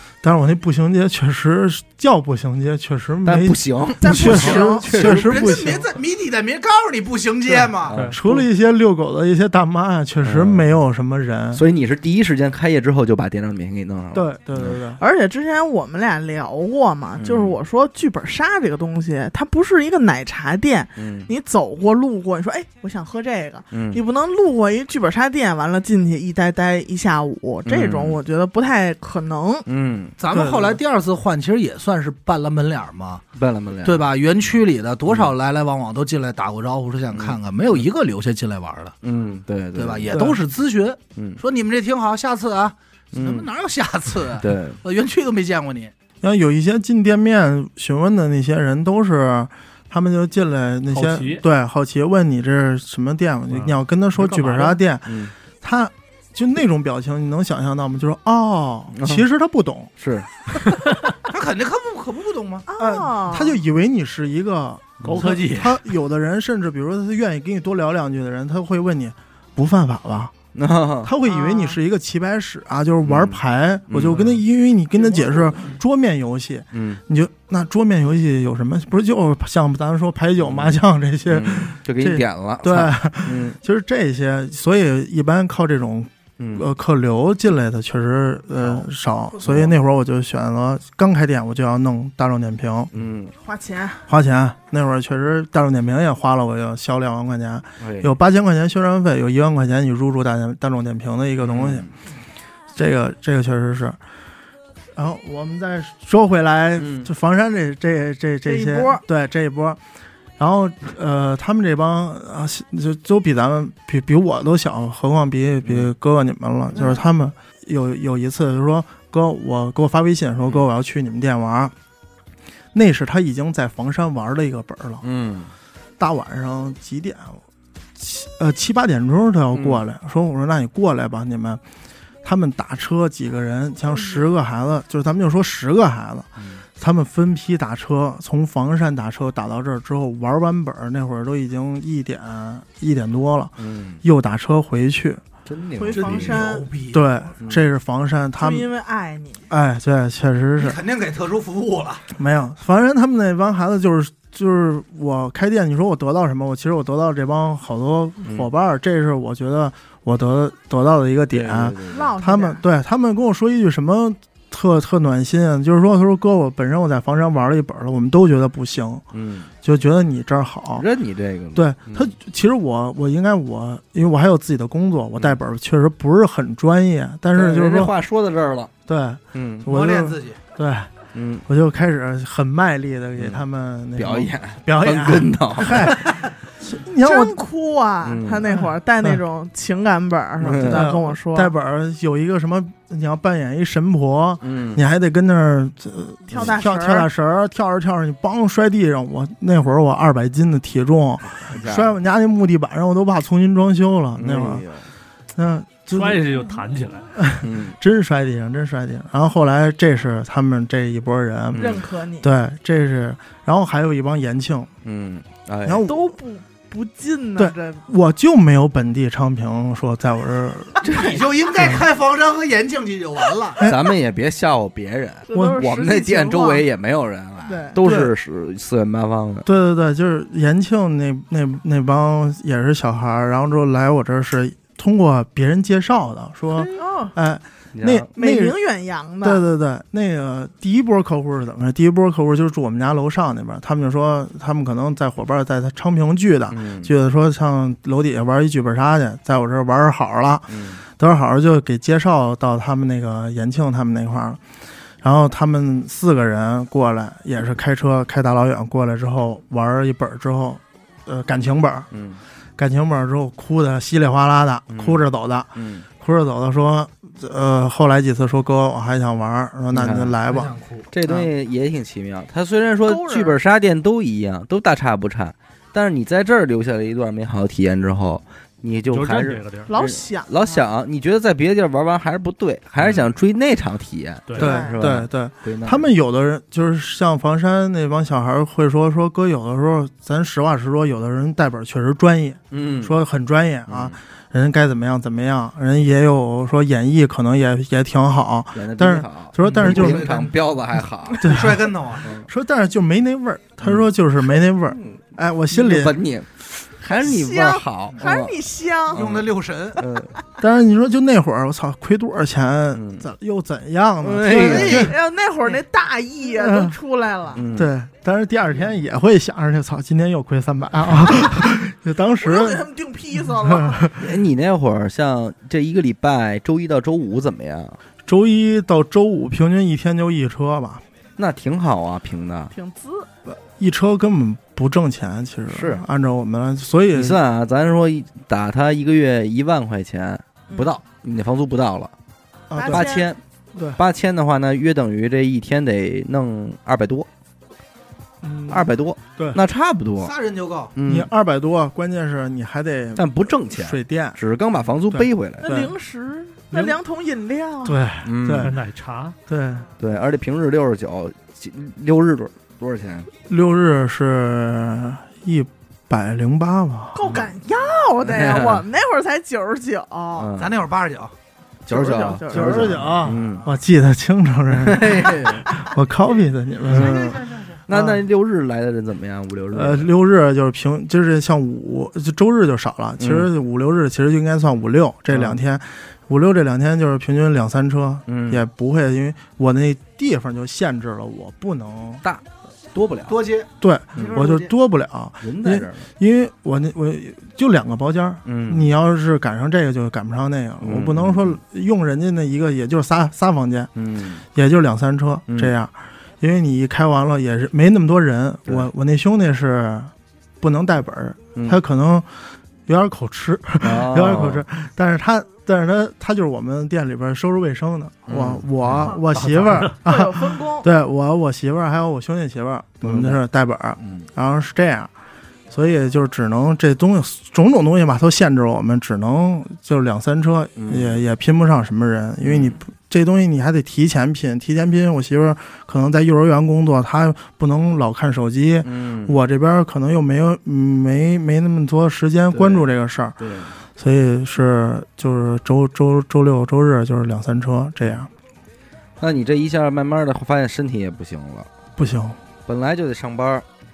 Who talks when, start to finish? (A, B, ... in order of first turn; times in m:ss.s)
0:00.2-0:05.9 A
0:03.2-0:05.6 B
0:04.0-0:04.9 C
0:05.0-0:08.1 D
0:07.5-0:11.6 A
0:07.8-0:08.2 B
0:07.9-0:08.2 E
0:10.2-0:10.6 B
0:11.5-0:14.8 B
0:14.1-0:15.0 A
0:15.0-0:29.6 C
0:17.2-0:17.6 B
0:21.0-0:21.3 B
0:23.7-0:24.0 B
0:27.6-0:28.2 B
0:29.6-0:30.2 B
0:30.2-0:33.2 D
0:30.3-0:30.8 A
0:33.3-0:34.1 B
0:33.8-0:38.9 D
0:35.1-0:35.3 B
0:37.1-0:37.8 B
0:39.0-0:40.2 B
0:39.7-0:45.9 D
0:40.1-0:40.4 A
0:41.2-0:41.4 B
0:43.1-0:43.5 B
0:44.4-0:44.8 B
0:46.2-0:59.9 A
0:50.9-0:51.4 E
0:53.6-0:54.8 E
0:55.0-0:55.3 B
0:58.9-0:59.2 B
1:00.0-1:00.6 B
1:01.3-1:02.6 D
1:02.7-1:03.6 C
1:02.8-1:10.3 A
1:05.0-1:05.4 B
1:05.0-1:05.8 E
1:10.5-1:11.1 B
1:11.0-1:32.9 A
1:11.2-1:11.8 C
1:13.0-1:14.4 B
1:16.7-1:17.0 B
1:20.4-1:23.6 B
1:26.4-1:26.7 B
1:28.6-1:28.8 B
1:29.4-1:29.7 B
1:32.9-1:33.3 B
1:33.4-1:34.1 C
1:34.1-1:41.9 A
1:37.8-1:38.1 B
1:41.4-1:41.9 B
1:42.7-1:44.0 A
1:44.9-1:49.8 A
1:46.8-1:47.1 B
1:48.4-1:49.0 C
1:50.4-2:01.7 A
1:55.6-1:55.9 B
2:02.7-2:05.0 A
2:05.0-2:05.5 B
2:06.0-2:07.4 A
2:08.0-2:11.6 A
2:09.5-2:09.8 B
2:12.2-2:25.2 A
2:16.4-2:16.6 B
2:23.6-2:24.0 B
2:25.4-2:26.5 B
2:25.8-2:26.7 C
2:25.9-2:27.3 D
2:26.9-2:28.7 A
2:27.4-2:27.6 B
2:28.4-2:29.4 C
2:29.5-2:30.8 A
2:30.6-2:32.1 D
2:32.1-2:49.0 A
2:41.3-2:42.1 B
2:41.9-2:42.6 C
2:49.1-2:49.5 B
2:49.6-2:50.8 A
2:50.7-2:52.1 B
2:51.5-2:57.9 A
2:57.3-2:58.7 B
2:58.9-3:00.9 A
2:59.3-2:59.7 B
2:59.7-3:00.4 D
3:01.1-3:01.4 B
3:01.4-3:07.4 A
3:03.2-3:03.4 B
3:04.0-3:06.0 B
3:07.0-3:11.5 C
3:08.0-3:08.4 B
3:08.5-3:09.2 A
3:10.4-3:10.9 B
3:10.6-3:24.6 A
3:14.4-3:14.8 B
3:16.3-3:17.1 C
3:21.3-3:21.9 B
3:24.2-3:24.9 B
3:25.3-3:26.4 A
3:25.9-3:27.1 E
3:27.1-3:34.7 A
3:27.4-3:27.8 B
3:31.5-3:31.8 B
3:31.6-3:32.3 C
3:34.8-3:35.8 B
3:35.6-3:36.2 A
3:35.8-3:37.8 C
3:37.4-3:40.8 A
3:40.8-3:43.6 D
3:40.8-3:41.2 C
3:43.6-3:43.9 A
3:43.6-3:49.5 B
3:45.3-3:46.6 C
3:45.3-3:45.6 A
3:47.4-3:47.8 C
3:47.8-3:48.1 A
3:49.4-3:58.6 A
3:56.6-3:57.1 C
3:57.7-3:58.1 B
3:58.2-3:59.4 C
3:59.2-4:14.4 A
4:06.5-4:06.9 B
4:10.5-4:10.8 B
4:15.0-4:21.9 A
4:21.9-4:22.2 B
4:22.6-4:30.5 A
4:24.7-4:25.0 B
4:25.6-4:25.8 B
4:29.7-4:30.1 B
4:30.2-4:30.9 D
4:30.9-4:45.9 B
4:32.8-4:33.4 C
4:38.9-4:39.7 E
4:39.7-4:40.6 C
4:44.4-4:44.7 C
4:44.4-5:00.2 A
4:52.5-4:52.9 B
4:53.7-4:54.0 B
4:58.5-5:01.4 B
4:59.4-5:00.4 D
5:01.2-5:02.1 D
5:01.2-5:06.0 A
5:02.0-5:02.3 B
5:03.6-5:03.9 B
5:04.7-5:08.3 B
5:06.8-5:09.0 C
5:08.9-5:10.1 B
5:08.9-5:09.8 D
5:10.4-5:14.9 A
5:12.7-5:13.1 B
5:14.0-5:14.9 B
5:14.3-5:14.9 D
5:14.4-5:17.4 C
5:16.4-5:16.7 A
5:17.3-5:17.7 B
5:17.5-5:22.6 A
5:22.2-5:23.9 C
5:23.4-5:24.1 A
5:24.0-5:27.8 B
5:28.0-5:30.8 A
5:31.2-5:32.5 B
5:32.5-5:33.1 C
5:33.3-5:37.2 A
5:35.5-5:35.8 B
5:36.9-5:41.9 B
5:40.5-5:40.8 C
5:42.5-5:42.9 A
5:42.5-5:43.1 C
5:42.7-5:43.2 B
5:43.5-5:43.8 A
5:43.8-5:47.1 B
5:48.2-5:49.4 A
5:48.5-5:50.1 B
5:50.0-5:50.7 D
5:50.7-5:51.1 B
5:50.8-5:54.2 A
5:53.0-5:55.5 B
5:54.9-5:55.7 A
5:55.4-5:57.8 C
5:57.6-5:58.6 A
5:58.0-5:58.5 B
5:58.4-5:59.2 E
5:59.3-5:59.7 A
5:59.8-6:03.1 B
6:03.3-6:07.2 A
6:06.9-6:10.3 C
6:08.0-6:08.6 B
6:10.2-6:10.5 B
6:10.4-6:11.1 D
6:11.7-6:12.8 C
6:11.7-6:13.4 B
6:12.3-6:18.0 A
6:13.0-6:13.5 D
6:14.5-6:15.5 B
6:16.6-6:19.9 B
6:16.7-6:17.6 D
6:19.5-6:32.0 A
6:23.0-6:23.3 B
6:25.1-6:25.4 B
6:28.1-6:28.4 B
6:32.0-6:33.2 B
6:33.1-6:34.5 D
6:33.6-6:43.7 A
6:35.2-6:35.8 B
6:38.2-6:38.7 B
6:40.6-6:41.4 B
6:43.8-6:44.2 B
6:44.3-6:52.1 A
6:45.3-6:45.5 B
6:51.3-6:51.6 B
6:52.6-7:04.9 A
6:53.6-6:54.4 B
6:58.1-6:58.9 B
6:59.1-6:59.7 E
6:59.8-7:00.6 C
7:02.8-7:03.2 B
7:03.8-7:04.1 B
7:05.5-7:23.2 A
7:10.6-7:11.0 B
7:12.2-7:12.6 B
7:18.6-7:19.2 B
7:22.3-7:22.7 B
7:23.2-7:23.5 B
7:23.8-7:28.1 A
7:29.0-7:31.5 B
7:31.8-7:32.2 A
7:32.5-7:33.4 B